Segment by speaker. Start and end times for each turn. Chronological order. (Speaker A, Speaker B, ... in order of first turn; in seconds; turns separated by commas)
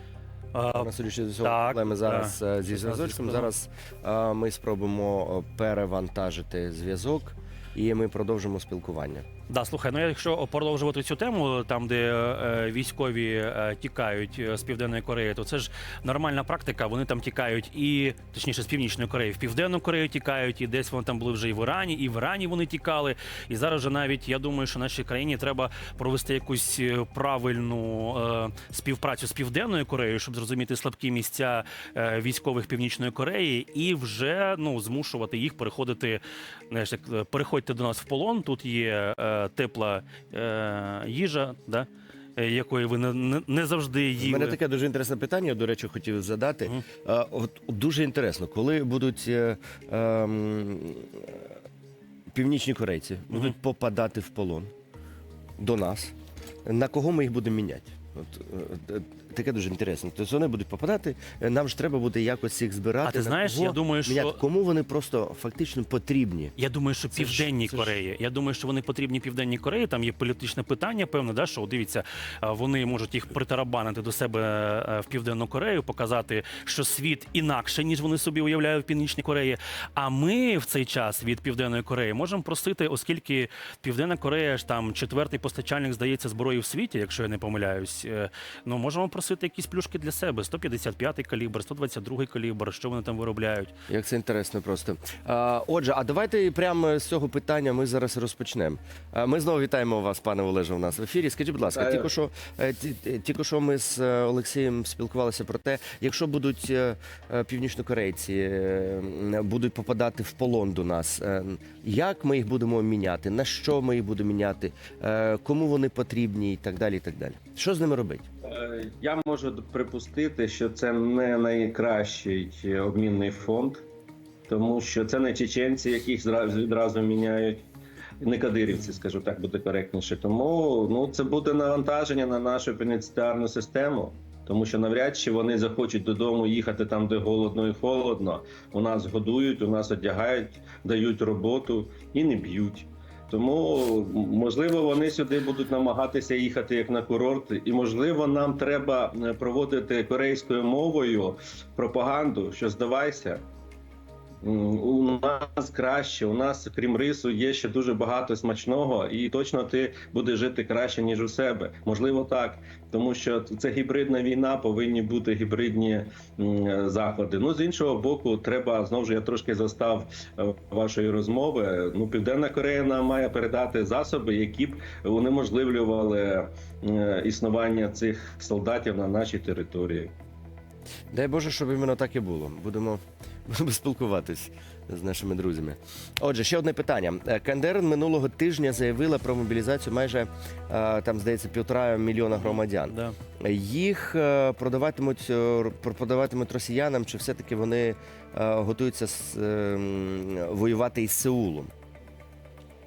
Speaker A: 0.5-3.5, Speaker B: 0.7-9.2, Speaker A: 9.5-44.6, Speaker B: 44.2-51.4, Speaker B: 52.3-54.7, Speaker B: 55.6-56.1, Speaker B: 56.6-66.5, Speaker A: 63.0-64.4, Speaker A: 66.6-93.7, Speaker B: 67.1-68.0, Speaker B: 93.9-118.3, Speaker C: 101.7-102.1, Speaker C: 118.4-123.8, Speaker C: 124.5-127.7, Speaker C: 128.2-153.4, Speaker C: 154.4-180.1, Speaker B: 181.1-201.7, Speaker A: 192.3-193.1